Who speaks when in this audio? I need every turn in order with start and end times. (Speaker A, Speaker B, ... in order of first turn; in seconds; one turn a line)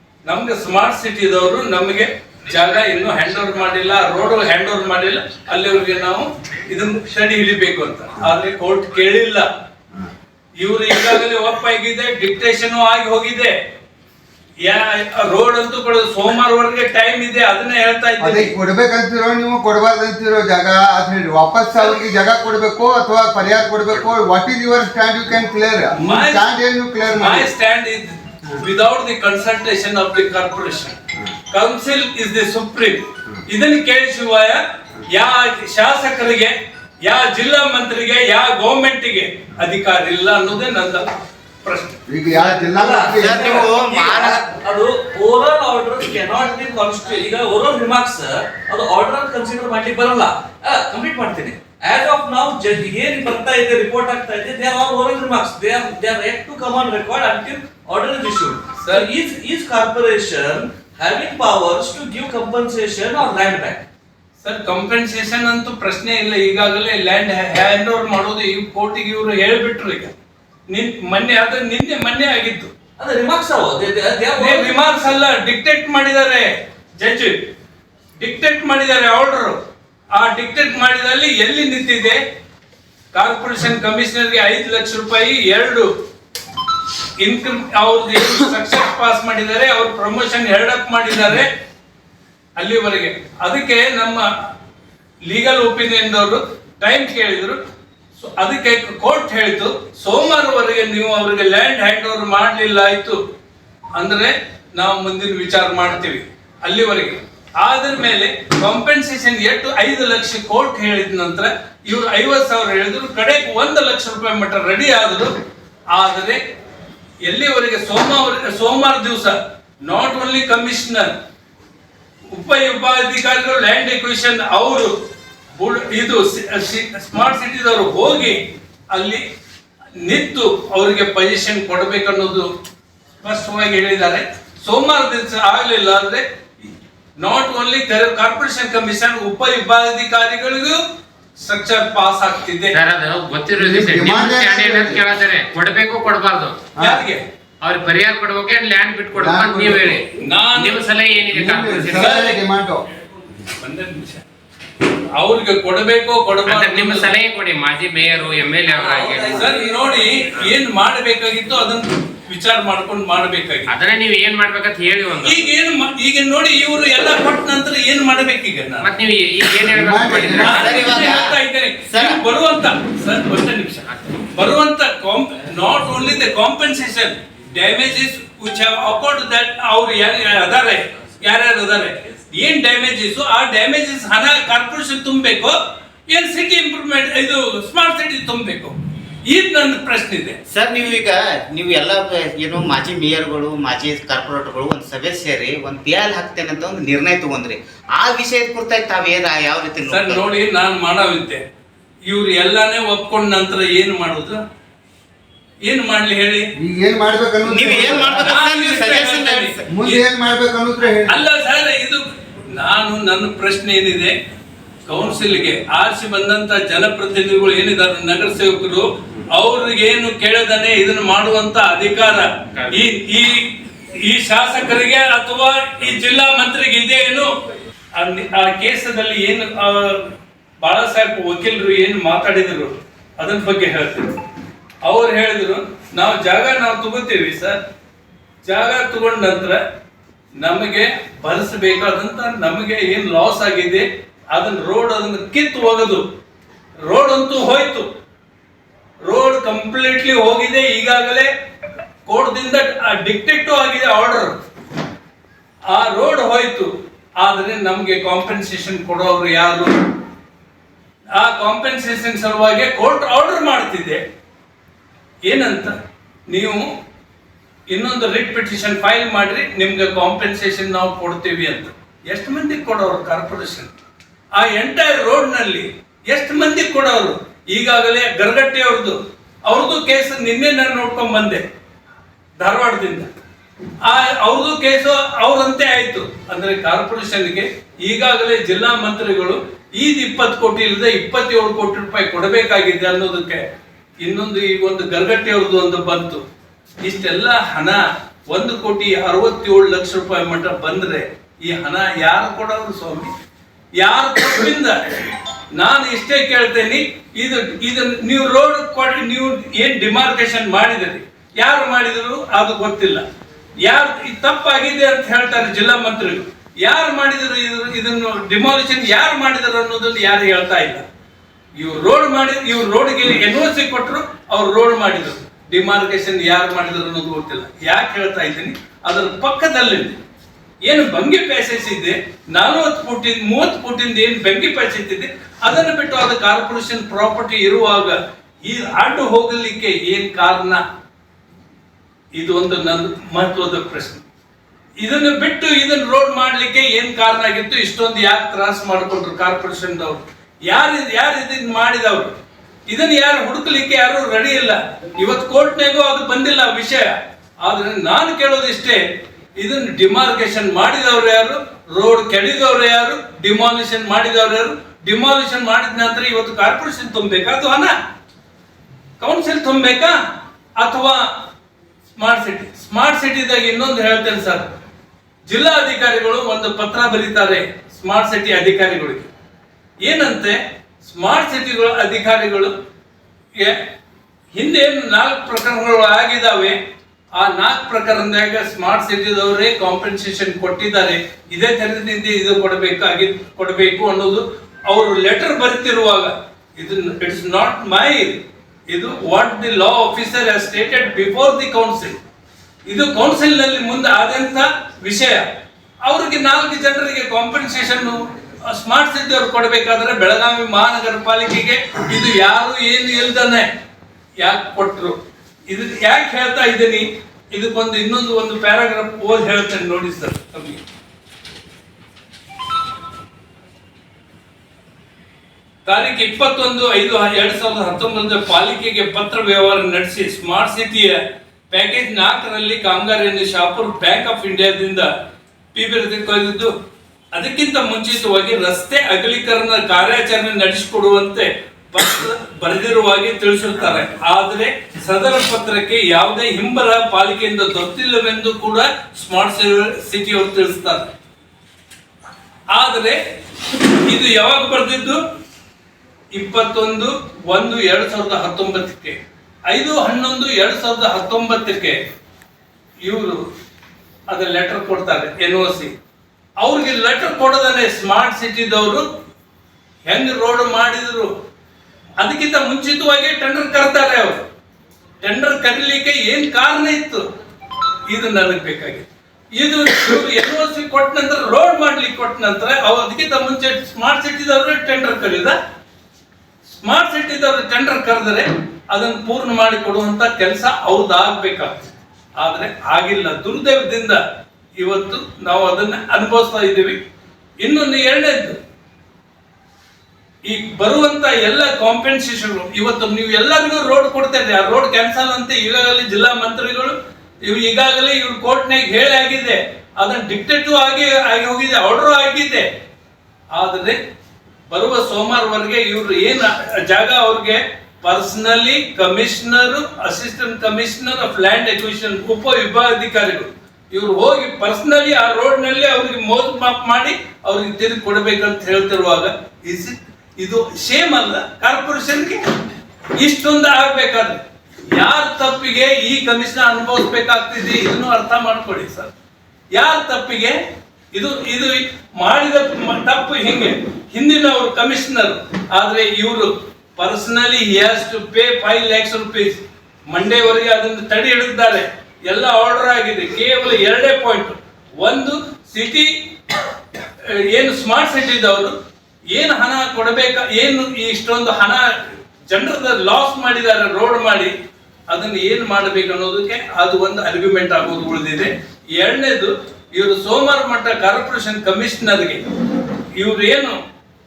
Speaker A: 0.2-9.4
Speaker A: 10.6-13.5
Speaker A: 14.6-18.5
Speaker B: 18.2-27.5
Speaker A: 25.9-26.5
Speaker A: 27.1-30.9
Speaker A: 31.5-41.1
Speaker A: 41.6-42.0
Speaker B: 42.1-43.7
Speaker C: 42.3-63.9
Speaker D: 43.1-44.4
Speaker A: 58.8-59.1
Speaker A: 64.4-70.1
Speaker A: 70.7-72.7
Speaker C: 73.0-74.9
Speaker A: 74.3-77.5
Speaker A: 78.2-79.6
Speaker A: 80.1-82.2
Speaker A: 83.1-85.9
Speaker A: 87.2-91.5
Speaker A: 92.6-94.3
Speaker A: 95.2-97.6
Speaker A: 98.2-103.2
Speaker A: 104.0-115.3
Speaker A: 115.9-116.4
Speaker A: 117.2-121.2
Speaker A: 122.3-124.9
Speaker A: 125.5-129.2
Speaker A: 130.0-132.5
Speaker A: 133.2-140.8
Speaker A: 141.4-142.8
Speaker E: 142.7-146.6
Speaker B: 143.6-145.0
Speaker B: 146.8-147.0
Speaker A: 146.8-147.2
Speaker E: 147.6-152.2
Speaker B: 149.1-150.0
Speaker A: 150.2-150.9
Speaker B: 151.3-152.8
Speaker A: 151.9-152.4
Speaker A: 153.5-154.2
Speaker A: 155.1-157.1
Speaker E: 156.5-159.5
Speaker C: 158.7-160.2
Speaker A: 159.3-163.7
Speaker E: 163.7-165.5
Speaker A: 165.2-168.9
Speaker E: 168.8-171.0
Speaker B: 169.7-170.8
Speaker A: 170.3-185.6
Speaker D: 170.5-171.3
Speaker D: 171.9-172.2
Speaker A: 186.1-188.8
Speaker A: 189.3-190.4
Speaker D: 190.5-200.2
Speaker A: 199.8-201.4
Speaker A: 202.1-204.4
Speaker A: 205.7-206.5
Speaker B: 206.6-208.3
Speaker D: 207.4-209.7
Speaker A: 207.9-210.1
Speaker B: 209.7-211.2
Speaker A: 211.1-214.1
Speaker A: 214.8-227.3
Speaker A: 227.9-234.2
Speaker A: 234.8-237.6
Speaker A: 238.4-239.6
Speaker A: 240.4-246.0
Speaker A: 246.8-247.9
Speaker A: 249.1-251.3
Speaker A: 252.0-254.4
Speaker A: 255.7-259.7
Speaker A: 261.1-264.0
Speaker A: 265.3-265.7
Speaker A: 266.3-266.6
Speaker A: 267.7-273.7
Speaker A: 274.4-281.4
Speaker A: 282.4-283.1
Speaker A: 283.8-293.4
Speaker A: 294.0-296.2
Speaker A: 296.8-303.1
Speaker A: 303.8-313.0
Speaker A: 313.6-320.8
Speaker A: 321.6-330.0
Speaker A: 330.6-340.6
Speaker A: 342.2-344.0
Speaker A: 344.8-352.1
Speaker A: 352.7-358.8
Speaker A: 359.4-367.7
Speaker A: 369.0-370.0
Speaker A: 370.6-371.0
Speaker A: 371.9-374.5
Speaker A: 375.3-379.1
Speaker A: 379.8-382.5
Speaker A: 384.3-386.6
Speaker A: 387.1-402.0
Speaker A: 402.7-405.3
Speaker A: 405.8-413.5
Speaker A: 414.2-420.6
Speaker A: 425.6-434.9
Speaker A: 435.5-436.5
Speaker A: 437.1-450.9
Speaker A: 452.5-455.0
Speaker A: 456.1-461.8
Speaker A: 462.8-463.2
Speaker A: 464.1-465.7
Speaker A: 466.4-468.8
Speaker A: 469.9-471.1
Speaker A: 472.0-474.2
Speaker A: 475.0-477.0
Speaker A: 477.9-485.4
Speaker A: 486.5-494.0
Speaker A: 494.6-496.8
Speaker A: 497.4-498.4
Speaker A: 500.2-512.5
Speaker A: 513.4-513.8
Speaker A: 514.5-532.2
Speaker A: 533.0-538.9
Speaker A: 539.5-540.4
Speaker A: 540.9-555.9
Speaker A: 557.2-558.5
Speaker A: 559.1-561.6
Speaker A: 562.3-564.3
Speaker A: 564.9-572.3
Speaker A: 573.0-573.6